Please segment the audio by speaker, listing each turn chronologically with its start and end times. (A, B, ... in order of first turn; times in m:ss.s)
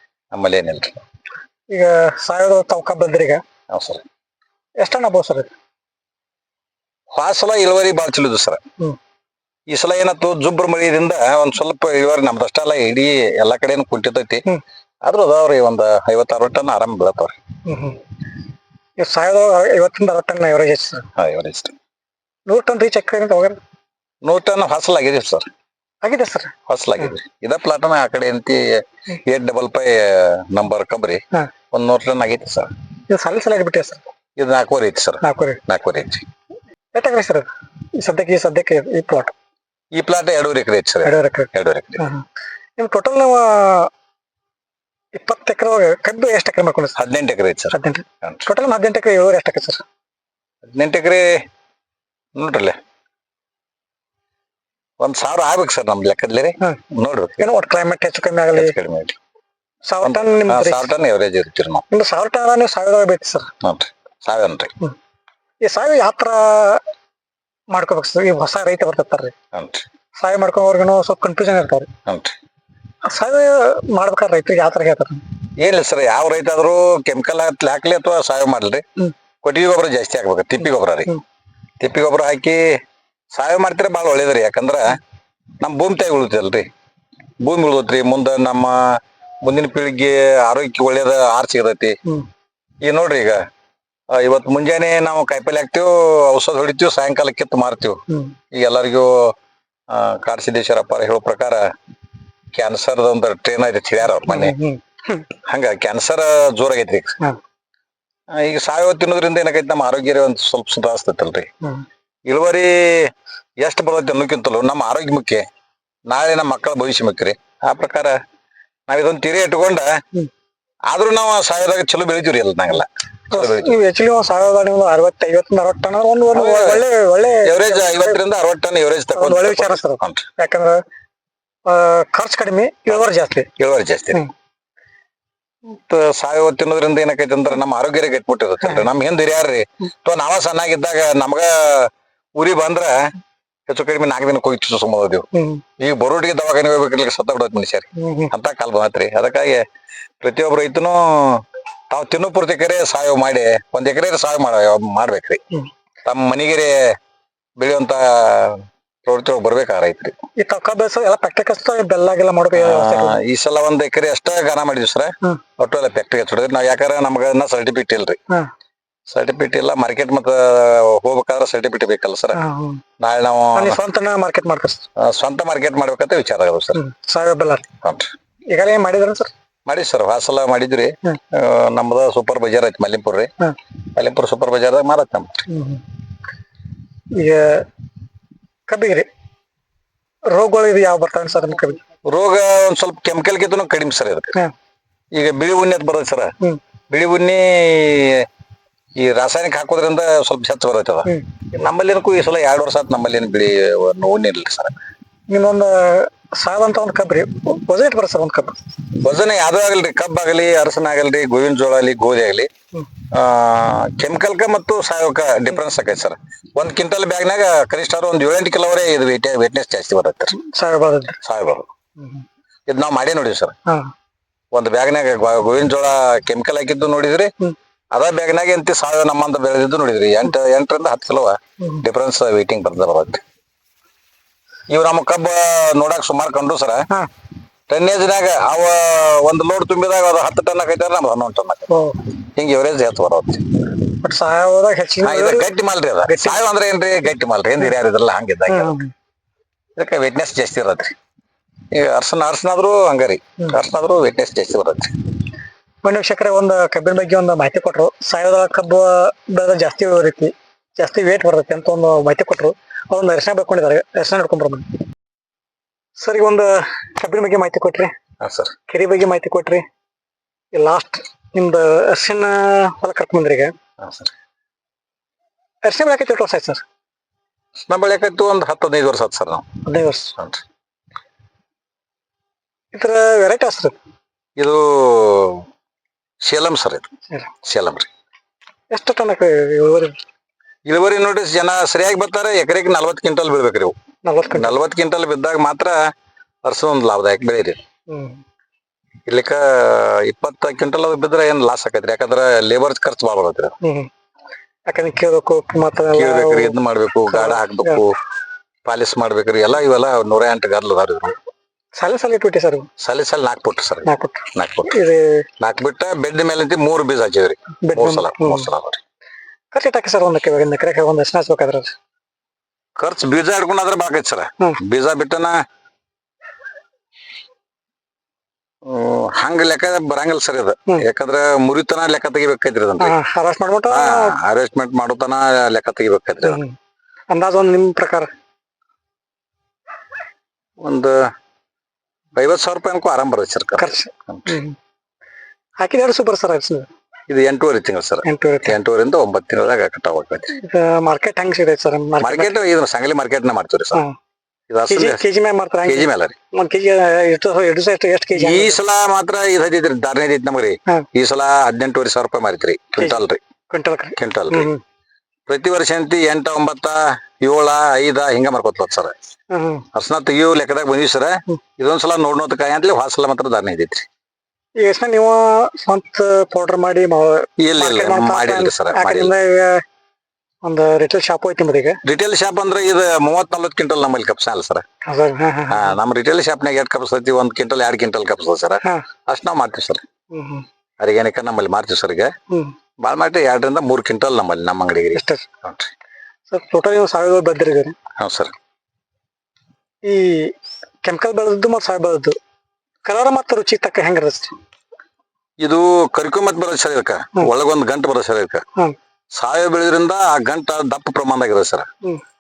0:00.3-0:01.0 A
0:01.7-0:03.4 B
0:03.7-0:04.0 A
0:04.8-0:05.5 B
0:07.1-0:08.6 A
0:09.7-0:14.5 A
0:15.0-0:17.4 A
0:17.7-0:18.0 B
0:19.0-0:21.1 B
0:21.2-0:21.7 A
0:22.5-0:23.6 B
0:24.2-0:25.5 A
0:26.0-0:26.5 B
0:26.7-0:32.7 A
0:33.1-0:34.0 B
0:34.4-0:36.3 A
0:35.2-0:35.6 B
0:36.9-0:39.4 B
0:39.9-0:42.1 A
0:41.0-0:42.2 B
0:42.8-0:43.9 B
0:45.2-0:47.0 B
0:47.0-0:48.4 A
0:47.7-0:49.8 B
0:50.6-0:51.4 A
0:52.4-0:52.8 A
0:55.0-0:57.5 A
0:57.4-0:58.8 B
0:58.5-0:59.2 A
0:59.9-1:00.9 B
1:00.0-1:01.8 A
1:01.9-1:03.5 B
1:03.6-1:04.7 A
1:05.6-1:06.8 B
1:07.7-1:09.4 B
1:09.5-1:09.8 A
1:10.2-1:11.9 B
1:12.1-1:12.4 A
1:13.0-1:15.2 B
1:15.6-1:18.8 A
1:19.4-1:21.1 A
1:21.8-1:22.8 A
1:23.3-1:25.0 A
1:25.6-1:26.7 A
1:27.4-1:32.0 A
1:32.8-1:33.5 A
1:34.1-1:39.4 A
1:38.1-1:38.4 B
1:39.9-1:41.7 A
1:42.5-1:44.6 A
1:44.2-1:45.2 B
1:45.5-1:47.2 A
1:48.3-1:51.5 A
1:52.3-1:55.5 A
1:56.1-1:58.2 A
1:58.9-2:00.0 A
2:00.9-2:03.8 A
2:03.3-2:08.2 B
2:06.3-2:06.8 A
2:07.4-2:10.2 A
2:09.2-2:10.8 B
2:11.7-2:13.5 B
2:13.6-2:14.2 A
2:15.7-2:23.1 A
2:23.7-2:25.3 A
2:25.3-2:25.6 B
2:25.8-2:29.7 A
2:28.0-2:28.3 B
2:30.2-2:35.4 A
2:36.0-2:37.0 A
2:37.6-2:40.2 A
2:40.4-2:43.2 B
2:42.5-2:48.2 A
2:49.1-2:52.4 A
2:52.3-2:52.8 B
2:53.0-2:53.8 A
2:53.5-2:54.9 B
2:55.0-2:56.8 A
2:56.7-2:57.7 B
2:57.8-2:58.1 A
2:58.5-2:59.3 B
2:59.7-3:03.3 A
3:04.0-3:05.4 A
3:05.5-3:05.8 B
3:07.1-3:07.7 B
3:08.7-3:09.1 B
3:10.3-3:11.8 B
3:12.1-3:14.4 A
3:15.1-3:16.3 A
3:16.9-3:18.3 A
3:19.0-3:24.8 A
3:25.3-3:28.6 B
3:29.0-3:32.5 A
3:33.1-3:40.4 A
3:40.3-3:41.2 B
3:41.2-3:41.7 A
3:42.7-3:43.6 A
3:43.7-3:43.9 B
3:44.5-3:47.3 A
3:47.9-3:53.2 A
3:54.7-3:56.9 A
3:57.7-4:01.7 A
4:01.7-4:02.0 B
4:02.2-4:03.4 A
4:03.9-4:05.5 B
4:05.0-4:08.8 A
4:06.0-4:06.4 B
4:08.5-4:08.9 B
4:09.8-4:11.0 A
4:11.7-4:15.0 A
4:15.8-4:24.7 B
4:26.0-4:27.9 B
4:28.2-4:28.6 A
4:28.7-4:29.7 B
4:30.5-4:33.5 B
4:33.8-4:34.1 A
4:35.6-4:36.6 B
4:37.7-4:39.5 A
4:39.6-4:40.1 B
4:40.2-4:40.4 A
4:42.7-4:43.8 B
4:44.4-4:45.5 A
4:46.2-4:46.9 A
4:47.4-4:47.9 A
4:48.7-4:50.0 B
4:50.7-4:53.8 A
4:54.0-4:54.6 B
4:54.3-4:55.9 A
4:56.4-4:57.6 A
4:57.9-4:58.2 B
4:59.1-5:03.6 A
5:03.6-5:03.9 B
5:04.7-5:06.6 B
5:05.9-5:08.0 A
5:07.1-5:07.8 B
5:08.7-5:11.2 A
5:11.8-5:12.7 B
5:12.8-5:14.8 A
5:13.8-5:15.3 B
5:15.4-5:18.8 A
5:17.6-5:18.5 B
5:19.5-5:21.8 B
5:22.8-5:25.4 A
5:28.6-5:33.0 A
5:32.8-5:34.2 B
5:33.7-5:36.4 A
5:36.2-5:36.6 B
5:37.1-5:38.1 B
5:40.6-5:41.1 A
5:42.2-5:44.4 A
5:43.6-5:44.6 B
5:45.6-5:46.7 B
5:47.1-5:50.4 A
5:48.0-5:48.6 B
5:50.4-5:52.3 B
5:52.0-5:53.8 A
5:54.5-5:55.0 A
5:54.7-5:58.6 B
5:55.6-5:56.2 A
5:58.2-6:03.2 A
6:02.8-6:04.6 B
6:04.0-6:04.5 A
6:05.3-6:09.0 A
6:09.3-6:09.7 B
6:09.7-6:13.9 A
6:14.6-6:19.6 B
6:17.4-6:19.1 A
6:20.4-6:21.8 B
6:21.8-6:24.6 A
6:24.8-6:25.8 B
6:25.5-6:29.8 A
6:30.1-6:30.5 B
6:30.8-6:32.1 A
6:32.3-6:32.6 B
6:32.8-6:35.7 A
6:34.9-6:35.3 B
6:36.3-6:37.8 B
6:38.0-6:38.3 A
6:39.8-6:42.2 B
6:42.8-6:44.3 B
6:45.4-6:48.4 A
6:49.1-6:51.7 A